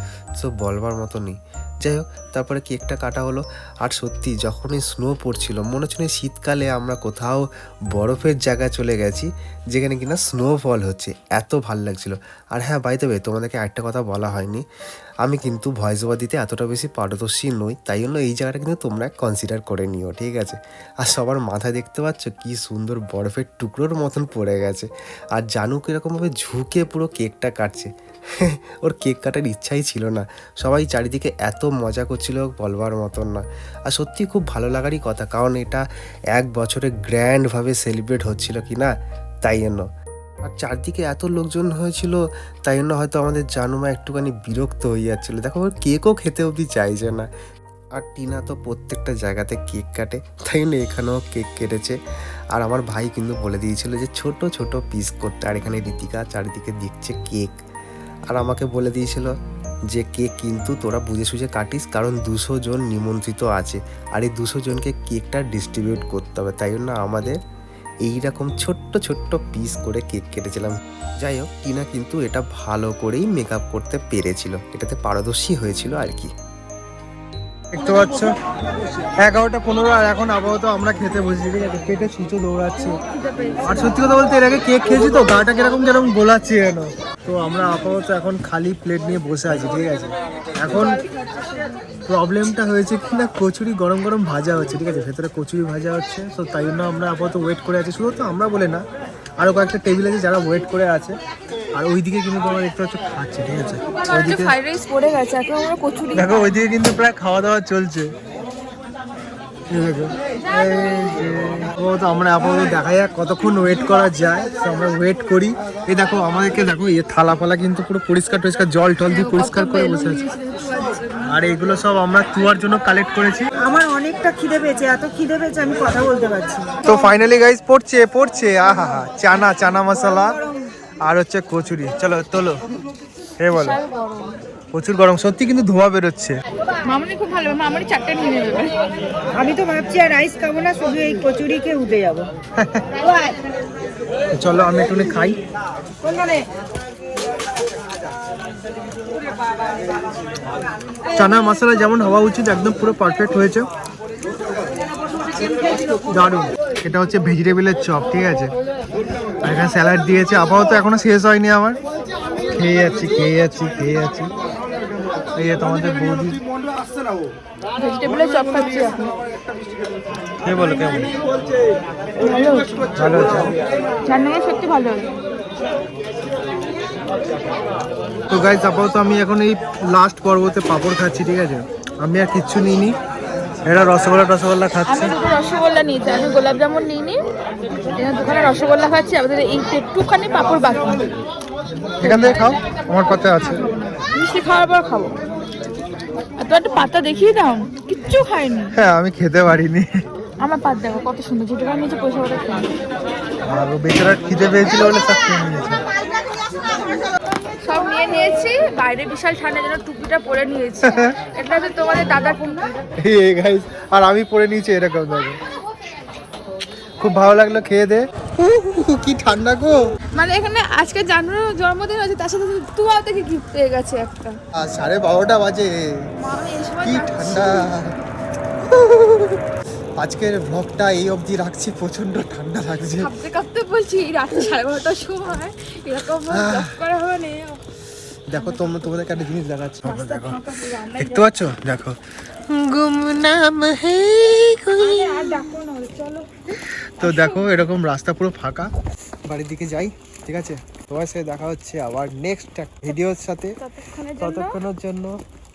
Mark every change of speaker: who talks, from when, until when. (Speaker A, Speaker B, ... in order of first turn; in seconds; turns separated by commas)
Speaker A: 0.4-14.6, Speaker A: 15.2-38.9, Speaker A: 39.4-39.9, Speaker A: 40.5-47.3, Speaker A: 48.0-52.0, Speaker A: 52.5-57.6, Speaker A: 58.3-59.3, Speaker A: 59.9-67.4, Speaker A: 68.0-76.3, Speaker B: 77.7-78.3, Speaker B: 79.2-83.0, Speaker C: 82.8-84.1, Speaker B: 83.6-91.0, Speaker C: 90.7-91.8, Speaker B: 92.1-98.8, Speaker B: 99.4-101.2, Speaker B: 101.7-104.5, Speaker C: 103.8-106.7, Speaker B: 106.2-108.1, Speaker B: 109.7-120.2, Speaker C: 119.1-121.4, Speaker B: 121.3-123.5, Speaker D: 123.6-126.9, Speaker B: 126.8-130.4, Speaker D: 130.0-130.4, Speaker B: 131.0-132.6, Speaker B: 133.4-133.8, Speaker C: 133.5-134.4, Speaker B: 134.7-136.4, Speaker C: 136.9-138.7, Speaker D: 139.3-142.3, Speaker B: 142.6-142.8, Speaker D: 143.1-143.3, Speaker B: 144.3-145.4, Speaker B: 151.2-153.7, Speaker B: 156.1-158.5, Speaker B: 159.4-161.8, Speaker B: 162.5-164.3, Speaker B: 165.4-166.4, Speaker C: 167.8-169.1, Speaker B: 170.4-171.1, Speaker C: 172.2-172.8, Speaker B: 172.9-173.6, Speaker C: 174.1-175.2, Speaker B: 178.3-182.9, Speaker B: 183.7-185.1, Speaker C: 184.8-187.2, Speaker C: 187.9-191.2, Speaker B: 192.0-193.7, Speaker C: 192.0-192.6, Speaker C: 193.4-195.2, Speaker C: 196.4-198.8, Speaker B: 198.8-199.9, Speaker C: 200.4-202.7, Speaker B: 203.4-205.9, Speaker C: 207.6-212.7, Speaker B: 210.8-211.1, Speaker B: 213.0-215.4, Speaker B: 217.0-219.8, Speaker C: 220.2-224.4, Speaker B: 224.6-225.7, Speaker C: 226.2-227.7, Speaker B: 226.8-228.0, Speaker B: 228.6-229.4, Speaker B: 230.0-233.1, Speaker C: 233.0-237.6, Speaker B: 236.3-236.8, Speaker B: 238.3-240.4, Speaker C: 238.3-238.9, Speaker C: 239.8-241.3, Speaker B: 241.0-245.4, Speaker C: 244.8-246.3, Speaker B: 247.0-248.7, Speaker C: 247.0-247.7, Speaker B: 249.3-253.6, Speaker C: 253.6-254.6, Speaker B: 254.2-255.2